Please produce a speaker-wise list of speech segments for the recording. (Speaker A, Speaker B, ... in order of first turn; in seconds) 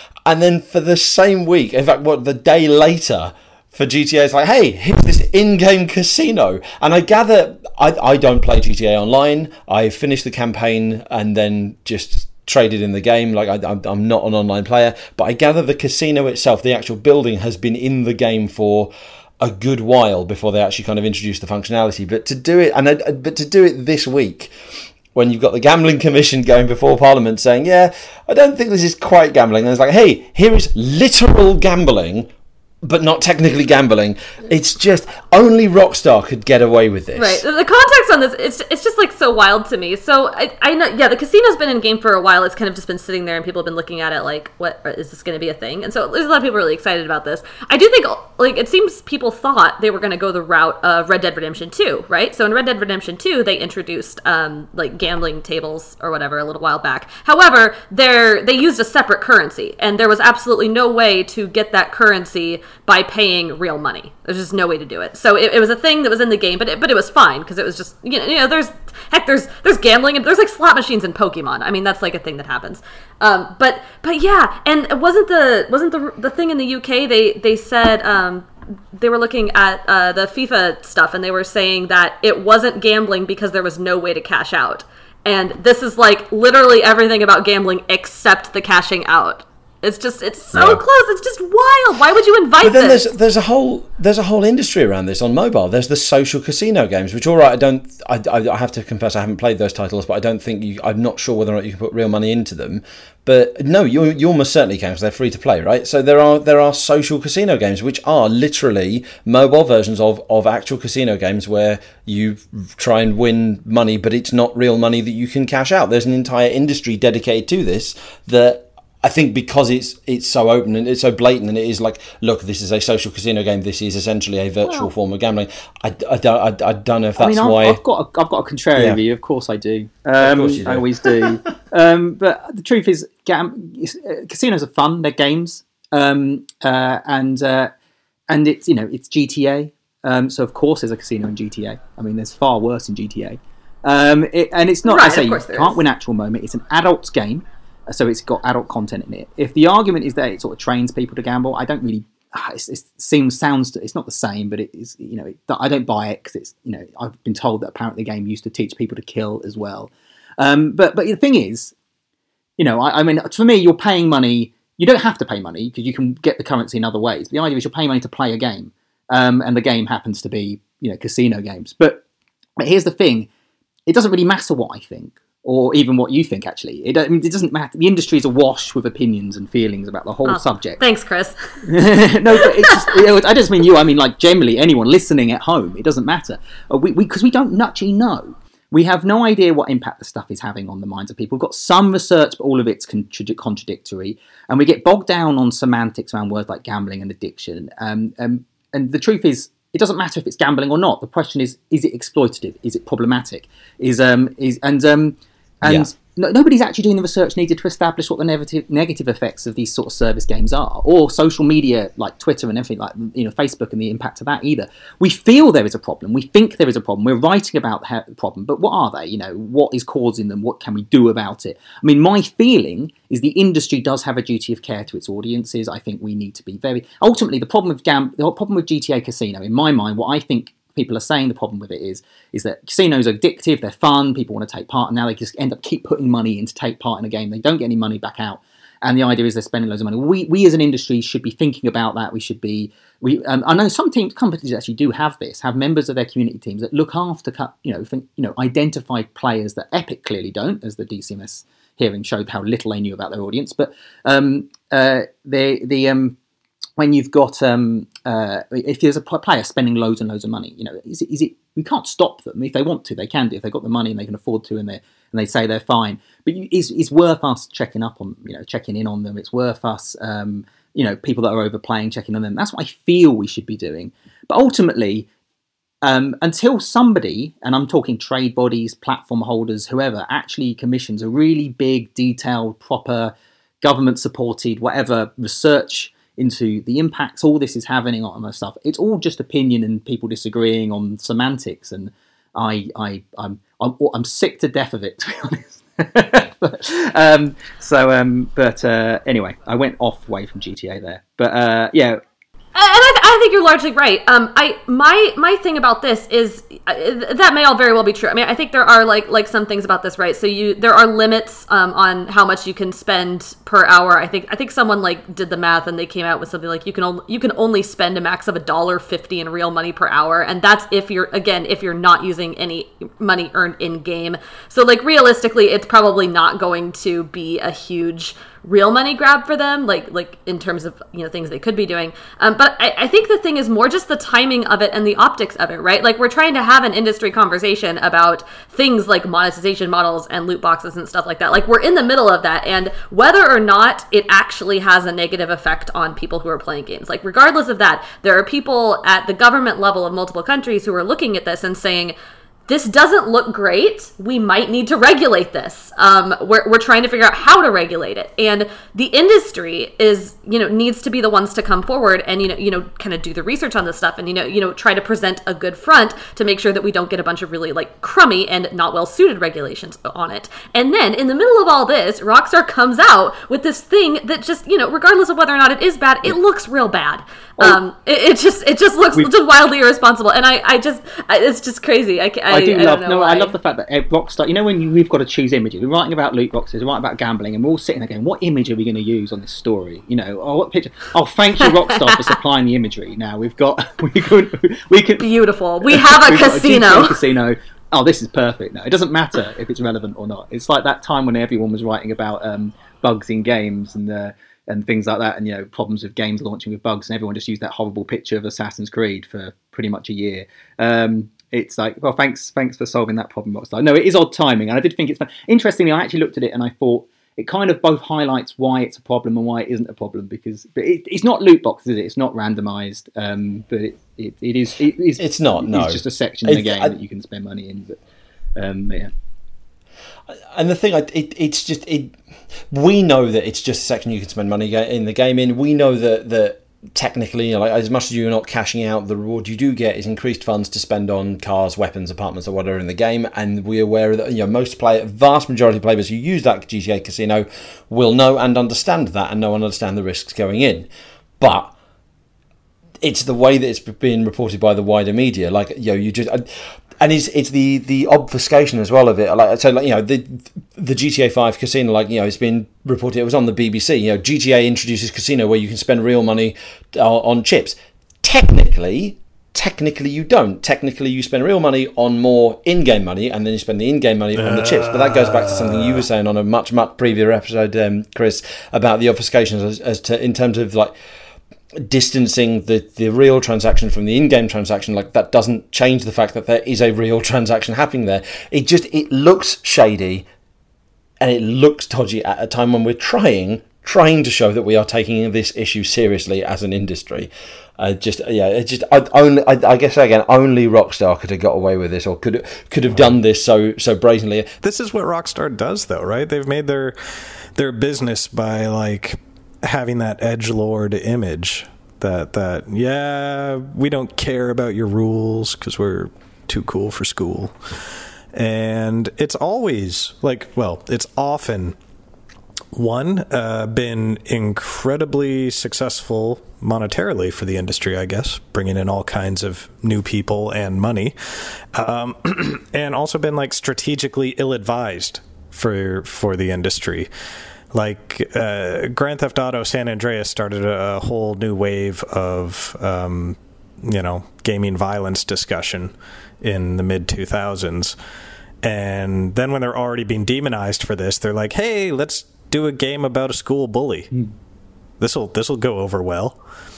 Speaker A: 0.2-24.5, 25.1-32.3, 32.8-37.4, 90.5-90.8, 92.6-127.8, 128.8-129.0, 130.2-131.5, 205.6-205.9, 425.0-426.7, 430.3-431.9, 432.5-450.7, 451.2-451.5, 452.8-480.7, 481.6-490.1, 491.0-504.3
Speaker B: 37.1-93.1, 144.8-145.8, 180.2-181.6, 182.3-182.9, 302.5-351.9, 352.5-383.3, 391.4-392.2, 395.0-397.0
Speaker C: 124.6-124.9, 127.2-137.7, 138.3-161.7, 162.6-172.0, 172.6-173.3, 173.9-180.8, 181.6-256.1, 256.8-275.1, 275.8-302.0, 382.3-395.1, 395.6-427.8, 428.4-428.9
Speaker D: 474.1-475.8, 504.4-506.8, 507.4-517.4, 518.1-521.5, 522.5-536.9, 537.5-547.8, 548.4-553.9, 554.8-556.2